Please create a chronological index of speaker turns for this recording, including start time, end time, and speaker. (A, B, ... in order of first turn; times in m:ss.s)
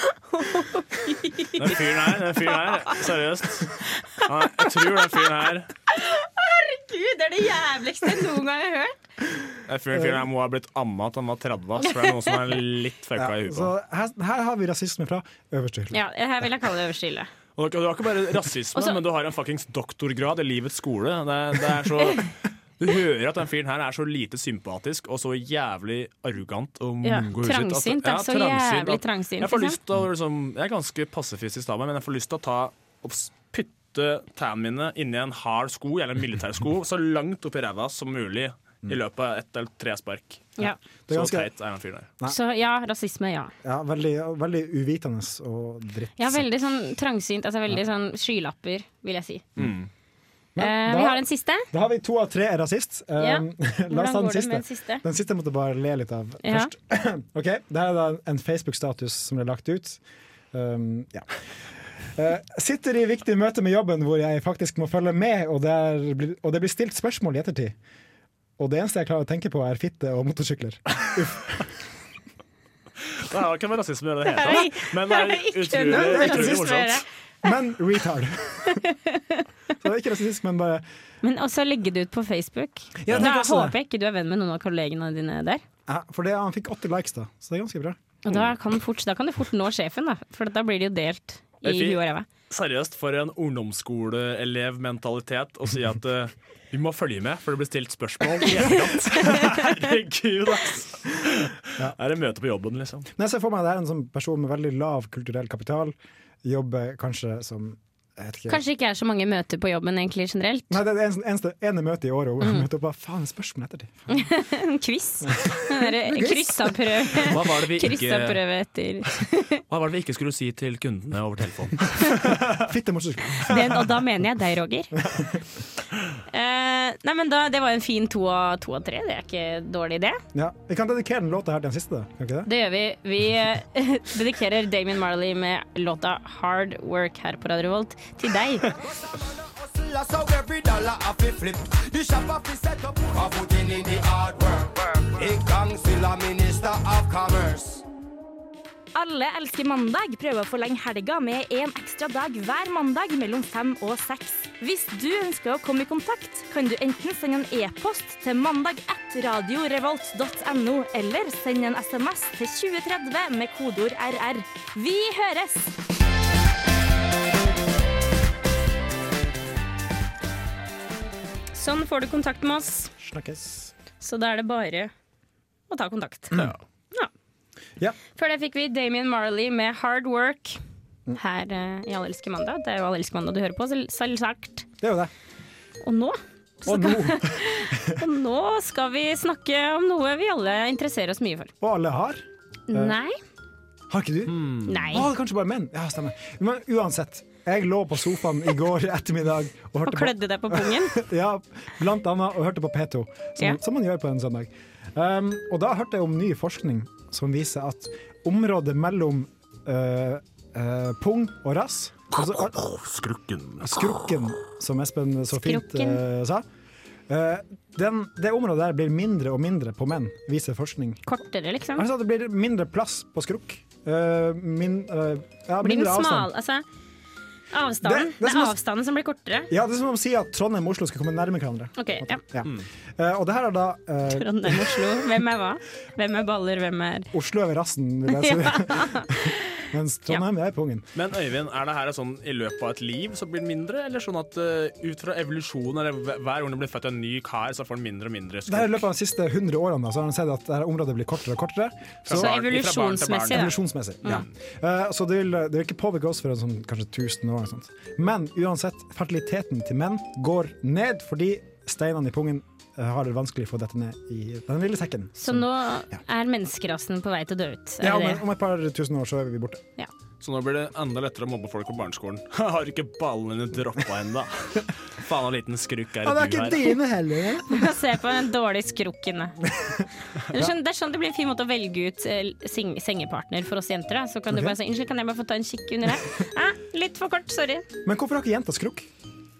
0:00.3-0:01.6 A
0:01.5-0:05.7 B
0:05.9-0:09.0 A
0:09.7-0:13.7 B
0:13.2-0:16.0 C
0:15.9-0:17.3 A
0:17.6-0:40.5 B
0:27.0-0:29.8 A
0:40.6-0:41.5 C
0:41.1-0:42.1 B
0:42.2-0:43.5 A
0:43.6-0:46.5 C
0:46.2-0:49.4 A
0:49.6-0:49.9 B
0:50.6-1:00.0 C
0:50.6-0:51.7 A
0:53.2-0:55.0 A
0:56.4-0:56.7 A
1:00.5-1:01.3 C
1:02.1-1:07.7 C
1:08.6-1:11.7 C
1:13.2-1:17.0 B
1:14.2-1:17.0 A
1:15.8-1:16.8 C
1:17.4-1:18.8 C
1:18.7-1:19.4 A
1:19.8-1:20.8 C
1:21.2-1:25.6 A
1:23.0-1:23.7 C
1:25.9-1:28.0 C
1:28.2-1:32.2 A
1:31.6-1:43.1 B
1:43.1-1:48.6 C
1:48.5-1:50.8 A
1:50.7-1:54.2 C
1:54.1-1:59.6 A
1:55.2-1:57.1 C
1:57.2-1:58.4 B
1:59.7-2:02.5 B
2:02.2-2:04.0 C
2:03.4-2:05.0 A
2:05.0-2:05.4 C
2:06.3-2:10.2 A
2:10.3-2:12.5 C
2:12.4-2:18.7 A
2:18.9-2:27.8 D
2:28.9-2:45.7 E
2:51.5-2:52.9 A
2:53.0-2:53.7 C
2:54.0-2:54.9 A
2:55.7-2:56.4 A
2:58.2-3:00.6 A
3:01.1-3:04.6 A
3:04.8-3:05.1 C
3:05.8-3:11.5 A
3:06.6-3:08.0 C
3:11.6-3:12.9 C
3:12.7-3:13.2 A
3:13.9-3:32.6 C
3:14.3-3:14.6 B
3:14.6-3:15.1 A
3:19.8-3:21.0 A
3:32.2-3:34.0 B
3:33.6-3:36.4 C
3:35.3-3:36.0 A
3:37.1-3:41.0 C
3:41.0-3:41.8 A
3:41.8-3:46.3 C
3:45.6-3:46.6 A
3:47.5-3:49.5 A
3:47.8-3:48.6 C
3:49.5-3:55.0 C
3:51.8-3:52.2 A
3:54.1-3:57.1 A
3:57.1-4:00.8 C
3:58.1-4:00.2 A
4:00.9-4:08.8 B
4:08.5-4:12.4 C
4:12.0-4:13.5 B
4:12.1-4:14.2 A
4:13.3-4:25.5 C
4:25.2-4:28.2 A
4:27.8-4:29.6 C
4:30.2-4:36.7 B
4:36.0-4:37.7 C
4:37.5-4:39.4 A
4:39.5-4:40.5 C
4:40.3-4:47.6 A
4:47.8-4:48.9 C